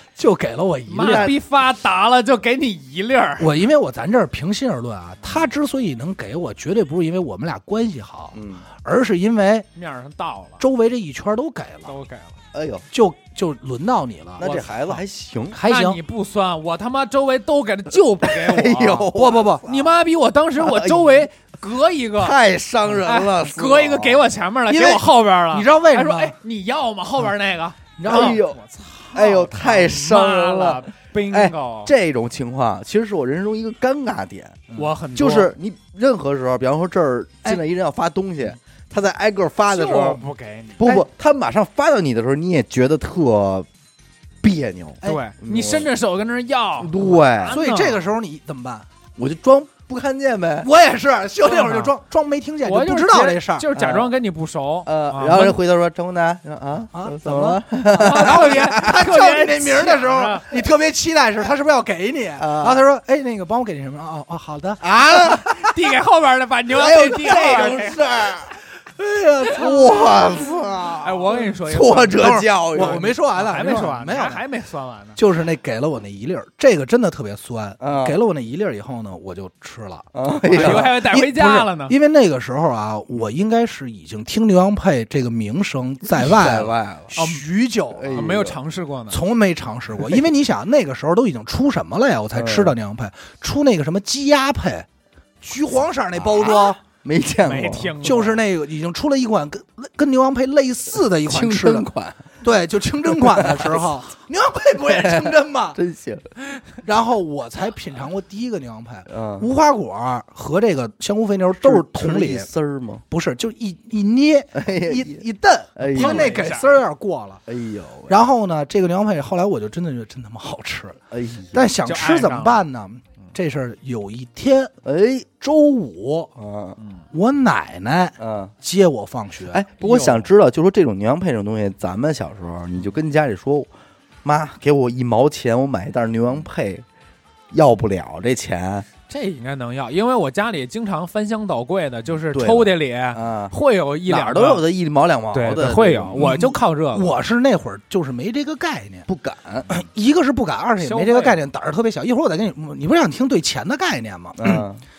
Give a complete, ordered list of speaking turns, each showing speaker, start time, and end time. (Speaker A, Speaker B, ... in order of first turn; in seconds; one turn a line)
Speaker A: 0.2-1.3
Speaker B: 0.9-3.5
Speaker C: 1.0-1.4
Speaker A: 3.4-9.7
Speaker C: 8.3-8.7
Speaker B: 9.8-10.6
Speaker A: 10.6-11.9
Speaker B: 11.9-12.4
Speaker C: 12.5-12.8
Speaker A: 12.9-14.7
Speaker C: 14.4-15.6
Speaker A: 15.5-16.0
Speaker B: 15.6-19.1
Speaker C: 18.2-19.9
Speaker A: 19.1-19.7
Speaker B: 19.6-22.4
Speaker C: 20.6-21.2
Speaker C: 22.2-24.3
Speaker B: 23.0-31.9
Speaker A: 24.7-26.4
Speaker A: 28.0-28.4
Speaker C: 28.1-28.6
Speaker C: 29.1-40.2
Speaker B: 34.8-35.5
Speaker B: 39.7-40.8
Speaker C: 40.8-43.7
Speaker C: 44.4-45.9
Speaker B: 45.0-48.0
Speaker C: 46.8-47.6
Speaker A: 47.5-48.9
Speaker C: 49.2-50.7
Speaker A: 50.6-53.7
Speaker B: 51.5-51.9
Speaker B: 52.6-55.6
Speaker C: 53.8-54.1
Speaker C: 54.9-58.9
Speaker A: 56.9-65.4
Speaker B: 57.9-60.5
Speaker C: 62.4-62.8
Speaker C: 64.8-65.5
Speaker B: 65.4-68.0
Speaker C: 66.7-68.5
Speaker A: 69.0-70.5
Speaker C: 69.5-73.1
Speaker B: 71.0-75.2
Speaker A: 72.1-74.4
Speaker A: 75.2-88.3
Speaker C: 77.8-78.2
Speaker C: 80.1-80.9
Speaker B: 80.5-82.0
Speaker C: 86.2-87.1
Speaker B: 87.2-87.4
Speaker C: 87.9-88.6
Speaker B: 88.1-89.2
Speaker A: 89.1-94.9
Speaker C: 92.3-92.8
Speaker A: 95.4-96.8
Speaker C: 96.2-98.2
Speaker B: 97.4-98.4
Speaker A: 98.0-101.9
Speaker C: 101.3-102.3
Speaker A: 102.4-105.8
Speaker C: 103.1-103.8
Speaker C: 104.9-106.3
Speaker A: 106.8-112.5
Speaker C: 109.1-109.5
Speaker C: 111.6-113.0
Speaker A: 113.1-117.4
Speaker C: 114.5-115.2
Speaker C: 115.8-116.4
Speaker B: 115.9-116.8
Speaker C: 117.5-118.2
Speaker A: 118.1-121.0
Speaker C: 121.1-121.7
Speaker A: 121.5-124.7
Speaker B: 121.8-122.7
Speaker C: 124.8-125.3
Speaker A: 125.4-126.3
Speaker C: 126.4-126.8
Speaker B: 126.8-127.0
Speaker A: 127.1-129.6
Speaker C: 128.2-128.5
Speaker C: 129.5-133.7
Speaker B: 129.8-130.3
Speaker C: 134.2-136.8
Speaker C: 137.5-138.9
Speaker B: 139.1-144.6
Speaker C: 142.3-143.5
Speaker C: 144.1-146.3
Speaker B: 145.3-147.1
Speaker A: 146.2-149.1
Speaker C: 149.1-149.8
Speaker A: 149.7-154.7
Speaker B: 150.8-151.4
Speaker C: 154.4-154.8